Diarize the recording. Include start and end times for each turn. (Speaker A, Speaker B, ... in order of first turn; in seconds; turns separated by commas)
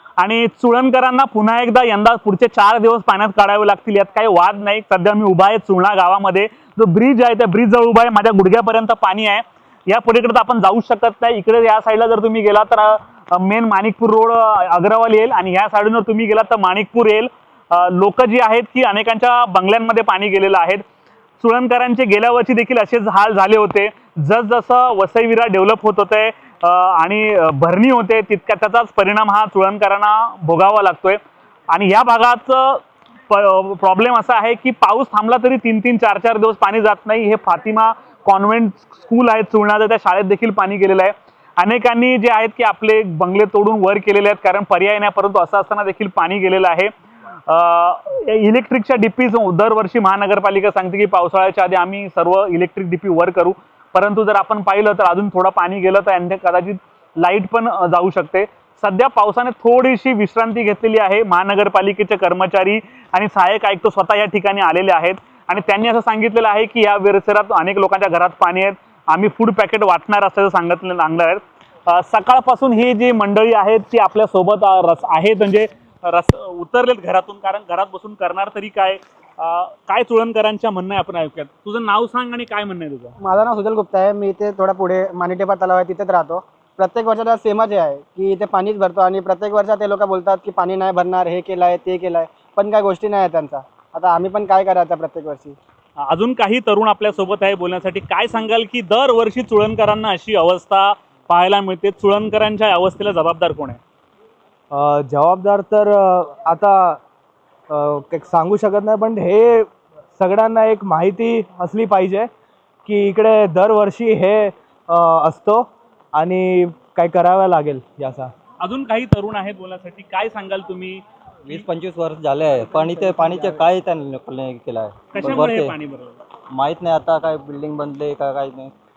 Speaker A: 0.2-20.8, Speaker A: 21.4-31.2, Speaker A: 31.7-46.9, Speaker A: 47.5-83.2, Speaker B: 83.2-95.6, Speaker A: 96.0-103.8, Speaker C: 104.7-107.0, Speaker C: 107.7-112.3, Speaker C: 112.9-118.3, Speaker A: 118.6-121.6, Speaker D: 121.5-125.8, Speaker C: 123.0-123.5, Speaker A: 125.1-126.2, Speaker D: 126.5-128.7